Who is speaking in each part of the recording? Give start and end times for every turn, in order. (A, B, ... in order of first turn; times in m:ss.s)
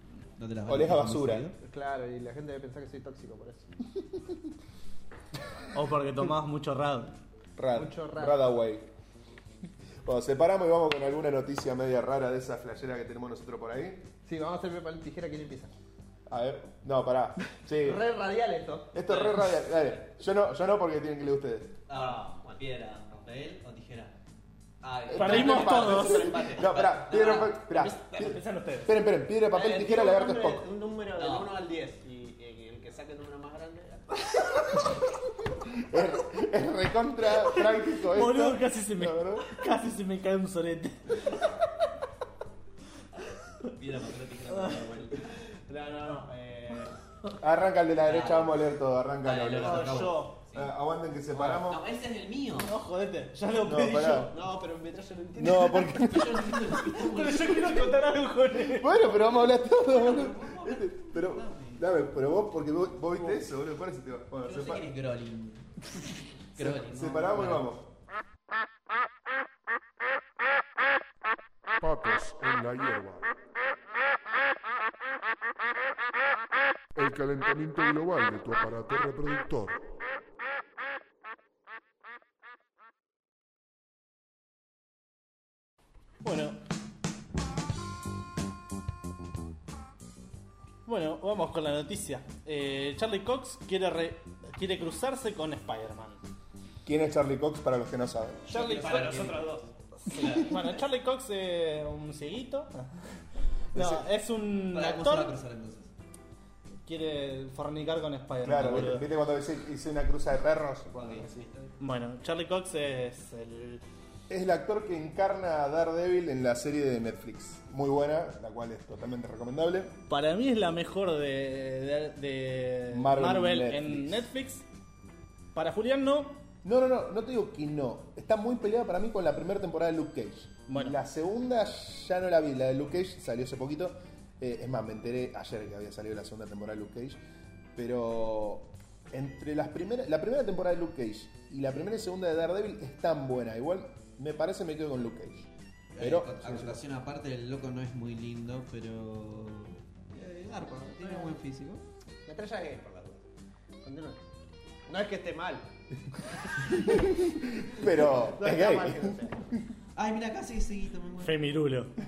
0:00.4-0:01.6 A
0:00.6-0:01.5 B
0:01.6-0:03.7 C
0:04.0-0:04.4 B
0:05.7-0:07.1 D
0:07.6-0:08.9 B
0:07.7-0:08.5 C
0:10.0-0:14.1 B
0:14.2-0:15.7 C
0:16.3-0:18.0 B
0:17.7-0:19.0 C
0:18.9-0:21.8 B
0:19.1-0:19.6 A
0:21.9-0:24.1 A
0:21.9-0:22.6 C
0:24.8-0:27.9 A
0:25.1-0:30.7 B
0:25.1-0:26.5 D
0:25.3-0:26.6 C
0:28.1-0:29.0 D
0:29.5-0:34.2 C
0:31.2-0:31.6 A
0:35.7-0:39.6 B
0:38.0-0:41.6 D
0:43.7-0:45.2 A
0:44.5-0:44.8 D
0:44.8-0:47.0 C
0:47.4-0:51.8 B
0:48.0-0:48.6 A
0:49.2-0:50.7 A
0:49.6-0:50.3 D
0:51.3-0:52.7 A
0:52.6-0:54.4 D
0:53.6-0:54.3 B
0:54.3-0:56.0 C
0:55.4-0:56.7 B
0:55.7-0:58.1 A
0:56.8-0:59.1 D
0:58.6-1:04.8 B
0:59.4-1:01.8 A
1:04.4-1:05.9 A
1:06.5-1:07.7 A
1:06.6-1:07.9 B
1:11.8-1:13.3 E
1:16.9-1:19.8 E
1:26.2-1:26.6 D
1:30.8-1:36.2 D
1:36.8-1:38.4 B
1:38.5-1:42.9 D
1:38.5-1:39.7 C
1:38.6-1:39.4 A
1:43.7-1:45.3 D
1:43.7-1:44.0 B
1:44.7-1:45.9 A
1:46.8-1:49.0 D
1:48.4-1:51.4 B
1:50.9-1:51.7 A
1:51.8-1:53.8 D
1:54.3-1:59.9 B
2:00.1-2:04.6 D
2:02.9-2:04.2 B
2:05.5-2:06.4 D
2:06.6-2:17.2 B
2:10.7-2:11.0 D
2:17.8-2:26.8 B
2:25.9-2:31.8 A
2:32.2-2:33.3 C
2:33.8-2:34.2 C
2:34.9-2:35.6 C
2:36.6-2:39.2 B
2:38.0-2:39.4 C
2:39.9-2:41.4 A
2:41.2-2:41.9 D